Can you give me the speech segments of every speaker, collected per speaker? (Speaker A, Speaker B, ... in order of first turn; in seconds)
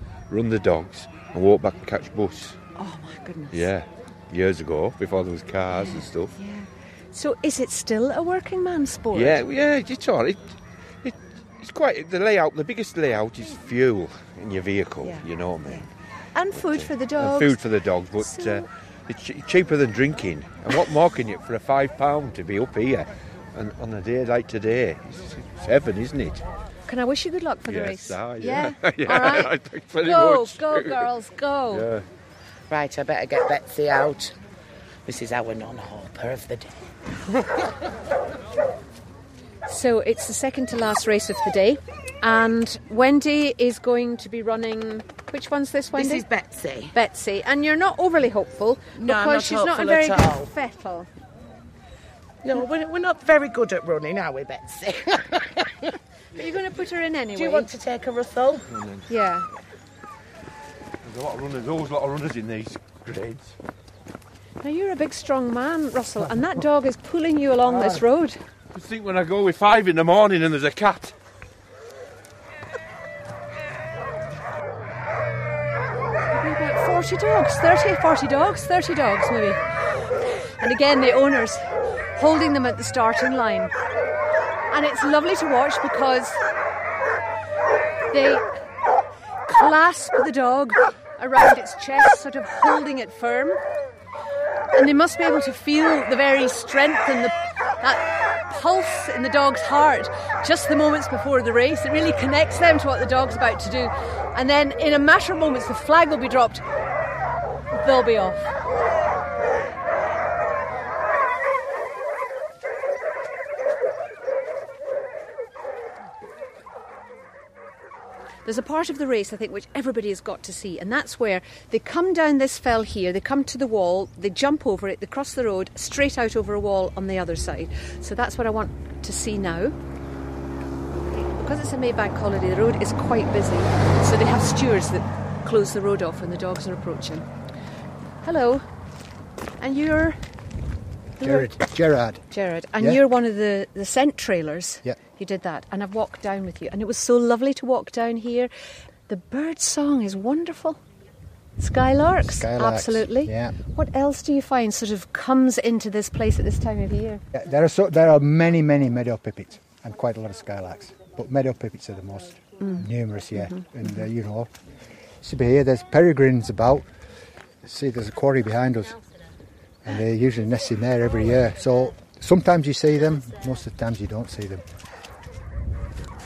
Speaker A: 0.3-2.6, 3.5-6.3, 9.1-10.5, 11.0-15.9, 16.5-26.4, 27.6-31.0, 31.7-32.0, 61.0-63.5, 68.7-71.1
Speaker B: 2.8-3.7, 5.7-9.4, 15.0-17.6, 18.1-18.7, 26.9-31.9, 39.7-46.2, 46.9-51.1, 56.3-57.7, 59.1-59.5, 64.6-68.4, 76.3-79.6, 80.6-83.7, 84.7-86.4, 88.1-88.5, 89.5-93.6, 94.7-106.6, 107.8-108.5, 118.5-129.8, 131.1-137.2, 138.2-138.6, 139.6-140.2, 141.2-141.6, 142.3-148.5, 149.1-150.8, 151.6-157.2
Speaker C: 32.7-34.3, 35.0-36.8, 45.9-46.9, 49.0-50.5, 52.4-55.9, 57.3-58.7
Speaker D: 141.2-142.2, 152.2-153.5, 157.3-164.5, 165.2-166.9, 167.6-169.0, 169.8-174.6